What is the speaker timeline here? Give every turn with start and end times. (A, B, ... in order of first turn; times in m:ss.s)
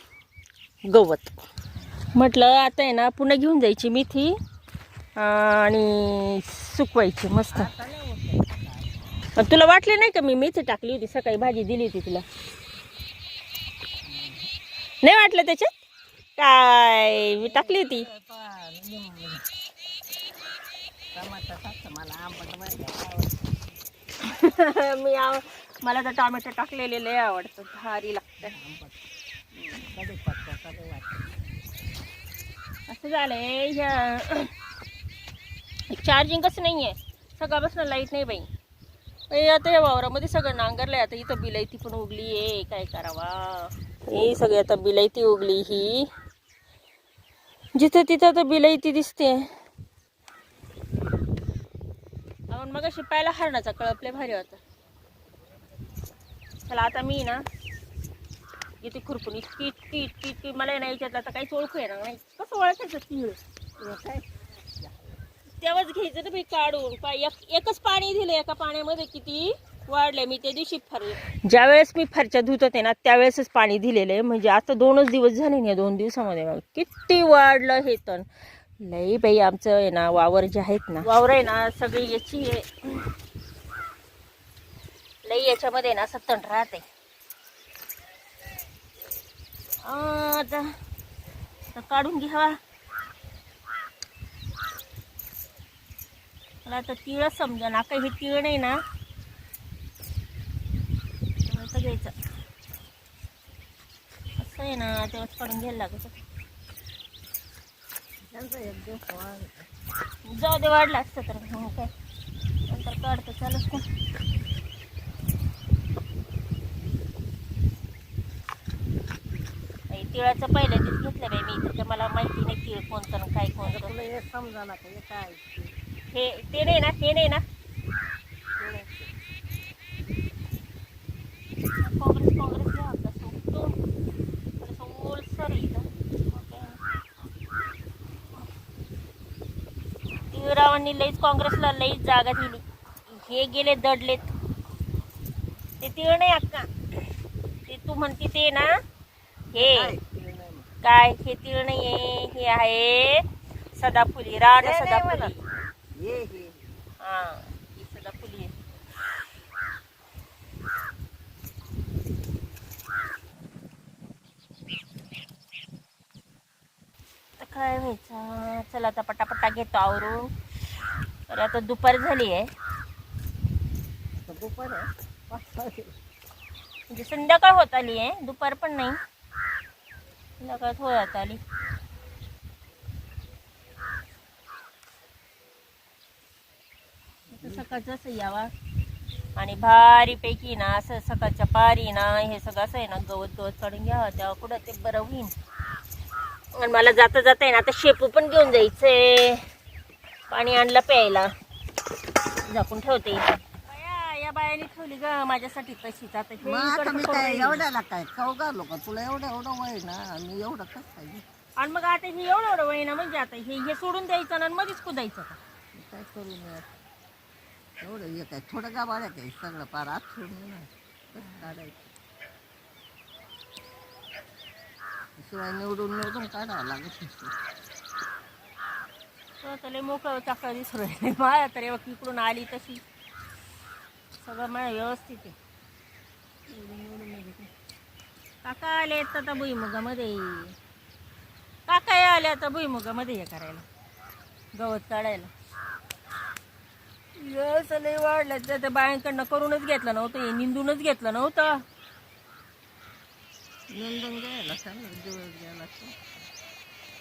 0:00.9-0:01.4 A
0:02.1-0:04.4 A
0:05.2-0:07.7 A
0:07.5-0:08.9 B
0:09.3-0:12.2 A
0:14.0-0:14.5 B
0:15.0-0:15.7 A
0:16.4-0:18.1 A
0:17.4-0:19.5 B
0:21.1-0:23.7 B
0:24.2-0:28.6 A
0:28.4-0:29.0 B
0:29.6-0:29.9 A
0:29.9-0:31.3 B
0:32.9-0:34.5 A
0:35.9-0:38.5 A
0:39.3-0:46.1 A
0:47.8-0:49.5 A
0:52.5-0:54.6 A
0:56.7-0:57.4 A
0:58.8-1:03.4 A
1:03.8-1:05.2 B
1:05.6-1:18.3 A
1:18.8-1:23.1 A
1:25.2-1:26.8 A
1:29.8-1:30.7 A
1:31.7-1:32.6 A
1:36.6-1:38.8 A
1:41.4-1:42.1 A
1:44.4-1:46.2 A
1:48.3-1:49.7 B
1:50.2-1:51.9 A
1:52.7-1:53.8 A
1:59.9-2:04.0 A
2:03.6-2:05.7 B
2:06.1-2:07.4 A
2:08.6-2:09.1 B
2:11.8-2:13.8 A
2:14.6-2:16.8 A
2:20.3-2:24.3 A
2:25.8-2:26.8 A
2:27.7-2:28.7 A
2:29.5-2:30.0 A
2:29.6-2:30.7 B
2:30.8-2:35.4 A
2:34.6-2:35.4 B
2:35.9-2:36.8 B
2:37.0-2:38.5 A
2:47.4-2:50.3 A
2:51.3-2:52.5 A
2:54.2-2:55.9 B
2:56.9-2:59.0 A
3:00.4-3:01.4 A
3:07.3-3:08.5 A
3:09.4-3:15.3 A
3:16.6-3:19.4 A
3:20.3-3:21.3 A
3:22.5-3:27.6 A
3:26.4-3:31.2 B
3:31.6-3:35.4 A
3:35.8-3:36.7 B
3:37.8-3:41.9 B
3:45.2-3:47.4 B
3:49.4-3:52.8 A
3:54.2-3:55.4 A
3:56.5-3:57.5 A
3:58.4-4:00.6 A
4:01.7-4:03.6 A
4:04.6-4:05.3 A
4:07.2-4:11.6 A
4:13.7-4:16.2 B